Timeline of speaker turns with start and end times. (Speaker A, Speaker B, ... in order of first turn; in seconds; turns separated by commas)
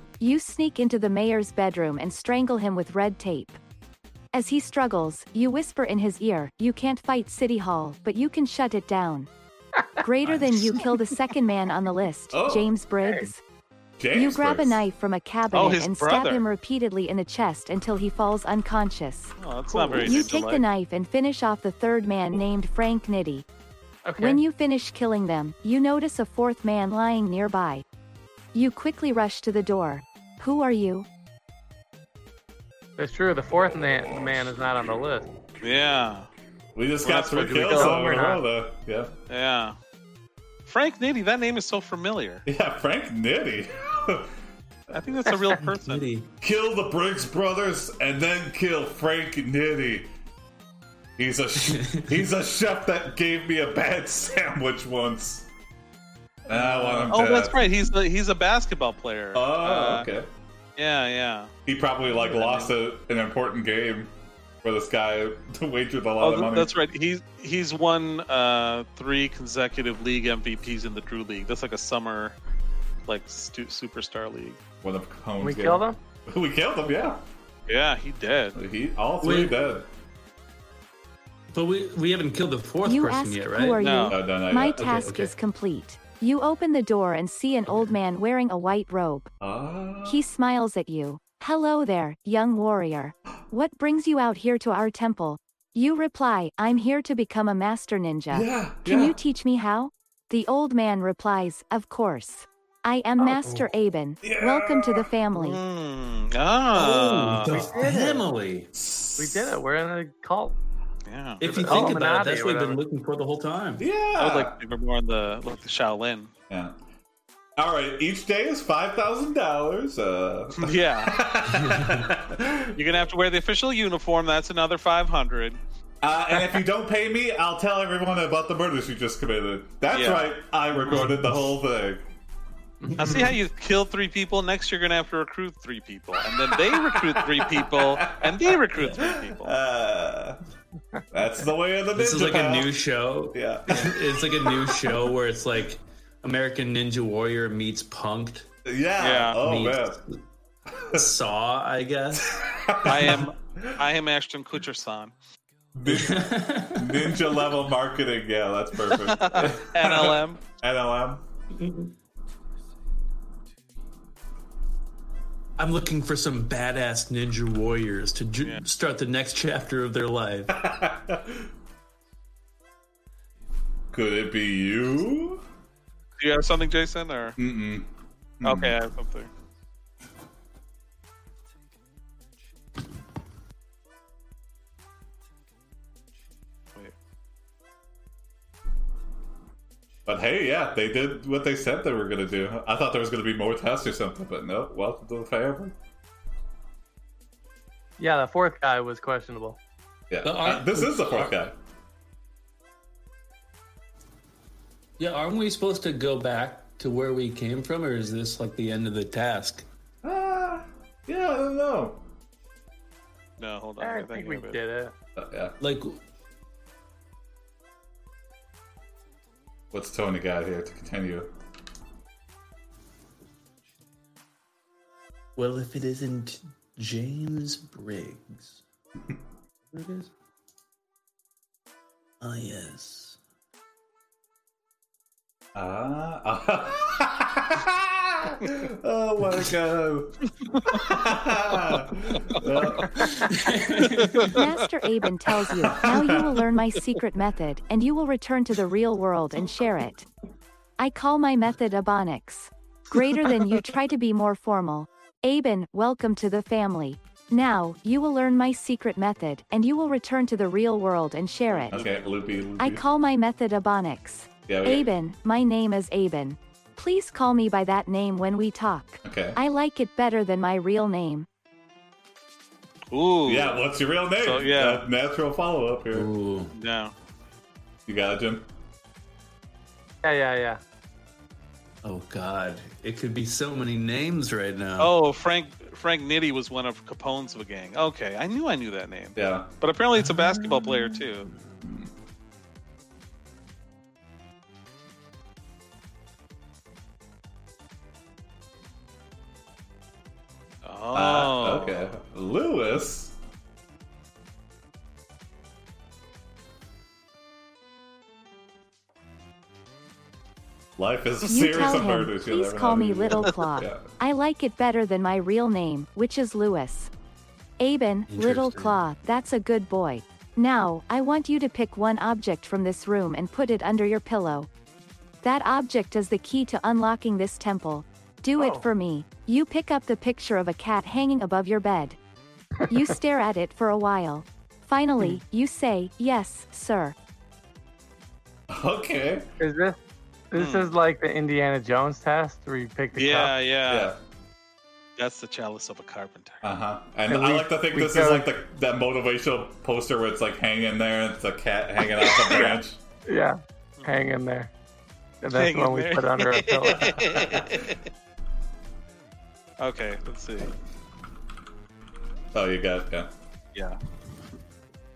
Speaker A: 0.2-3.6, Speaker A: 4.3-9.3, Speaker A: 10.0-13.4, Speaker B: 12.3-12.7, Speaker C: 13.0-13.3, Speaker B: 14.0-14.8, Speaker A: 14.1-19.4, Speaker D: 15.5-16.5, Speaker D: 19.4-20.6, Speaker C: 19.7-20.2, Speaker A: 20.0-23.5, Speaker C: 24.1-24.4, Speaker A: 24.2-27.9, Speaker A: 28.5-31.1, Speaker C: 33.0-35.3, Speaker D: 35.6-36.3, Speaker B: 36.8-39.1, Speaker D: 37.0-38.1, Speaker C: 37.6-38.4, Speaker D: 39.3-39.8, Speaker D: 40.7-42.5, Speaker B: 42.5-44.3, Speaker D: 44.9-46.1, Speaker E: 45.6-46.3, Speaker B: 46.4-50.1, Speaker B: 51.2-55.5, Speaker E: 51.6-52.3, Speaker B: 56.5-57.7, Speaker E: 56.5-57.2, Speaker D: 56.7-60.1, Speaker B: 59.3-60.3, Speaker D: 60.8-61.5, Speaker B: 61.7-64.1, Speaker D: 62.1-62.7, Speaker B: 64.6-66.7, Speaker D: 66.2-72.4, Speaker D: 73.1-74.6, Speaker B: 74.8-77.2, Speaker C: 75.4-76.0, Speaker D: 77.7-78.6, Speaker B: 78.6-79.9, Speaker E: 79.2-79.6, Speaker E: 81.5-83.9, Speaker A: 82.8-89.3, Speaker D: 83.8-84.2, Speaker B: 84.1-85.2, Speaker E: 84.7-85.3, Speaker B: 89.4-90.2, Speaker A: 90.0-105.6, Speaker B: 98.3-99.2, Speaker E: 103.4-103.7, Speaker B: 104.2-105.1, Speaker D: 105.3-107.7, Speaker E: 106.7-108.7, Speaker C: 107.5-108.2, Speaker B: 108.7-109.6, Speaker C: 109.2-110.5, Speaker D: 111.1-112.0, Speaker C: 111.4-112.8, Speaker E: 111.4-113.9, Speaker B: 113.8-114.5, Speaker D: 114.2-116.3, Speaker B: 116.5-116.8, Speaker B: 117.6-122.8, Speaker D: 120.6-121.2, Speaker E: 121.5-122.1, Speaker D: 122.7-125.6, Speaker B: 126.0-132.1, Speaker D: 129.9-130.3, Speaker C: 132.8-133.3, Speaker E: 132.9-133.3, Speaker D: 133.0-139.6, Speaker B: 136.5-140.4, Speaker B: 141.1-142.8, Speaker E: 141.9-148.5, Speaker B: 143.3-145.0, Speaker B: 148.7-150.0, Speaker D: 149.0-149.4, Speaker E: 149.4-150.2, Speaker B: 150.7-151.0, Speaker E: 150.9-153.2, Speaker B: 152.3-153.8, Speaker D: 152.8-155.1, Speaker B: 155.8-161.2, Speaker E: 155.9-157.5, Speaker D: 158.9-160.4, Speaker E: 161.5-161.9, Speaker E: 165.6-170.6, Speaker B: 170.5-171.5, Speaker B: 173.9-175.4, Speaker D: 176.2-177.4, Speaker B: 177.4-177.9, Speaker B: 178.4-178.8, Speaker D: 178.4-179.3, Speaker B: 190.1-195.8, Speaker C: 198.0-199.6, Speaker B: 200.1-201.5, Speaker E: 200.2-201.4, Speaker E: 205.0-209.7, Speaker B: 210.0-212.0, Speaker D: 213.4-214.6, Speaker C: 213.8-214.9, Speaker B: 215.2-215.6, Speaker E: 215.6-216.0, Speaker B: 219.7-221.3, Speaker E: 225.4-228.6, Speaker E: 229.7-230.1, Speaker E: 232.2-233.2, Speaker B: 235.6-243.2, Speaker E: 242.9-244.4, Speaker D: 243.8-244.4, Speaker A: 244.3-250.1, Speaker B: 245.8-246.4, Speaker A: 250.8-261.8, Speaker D: 261.5-262.2, Speaker B: 261.7-262.8, Speaker A: 262.6-271.3, Speaker B: 264.5-264.9, Speaker B: 269.0-269.4, Speaker D: 272.9-273.6, Speaker B: 273.2-276.1, Speaker D: 274.2-274.9, Speaker E: 275.9-276.5, Speaker D: 276.6-276.9, Speaker B: 277.9-278.5, Speaker C: 280.0-280.6, Speaker E: 281.8-284.9, Speaker D: 284.8-291.3, Speaker B: 289.2-289.5, Speaker B: 291.6-291.9, Speaker D: 300.6-301.9, Speaker B: 300.9-303.1, Speaker B: 310.8-313.9, Speaker A: 311.2-316.9, Speaker A: 317.6-324.5, Speaker E: 318.1-318.8, Speaker A: 325.2-332.0, Speaker C: 328.4-328.7, Speaker A: 332.7-337.0, Speaker B: 338.5-339.3, Speaker C: 339.4-339.8, Speaker C: 340.3-343.4, Speaker D: 340.4-340.7, Speaker D: 342.9-343.9, Speaker B: 343.7-344.0, Speaker D: 345.0-346.4, Speaker B: 346.4-352.8, Speaker C: 347.1-348.3, Speaker D: 352.0-352.6, Speaker C: 353.1-354.5, Speaker C: 355.2-357.4, Speaker D: 355.3-357.8, Speaker D: 359.6-360.5, Speaker B: 362.3-363.1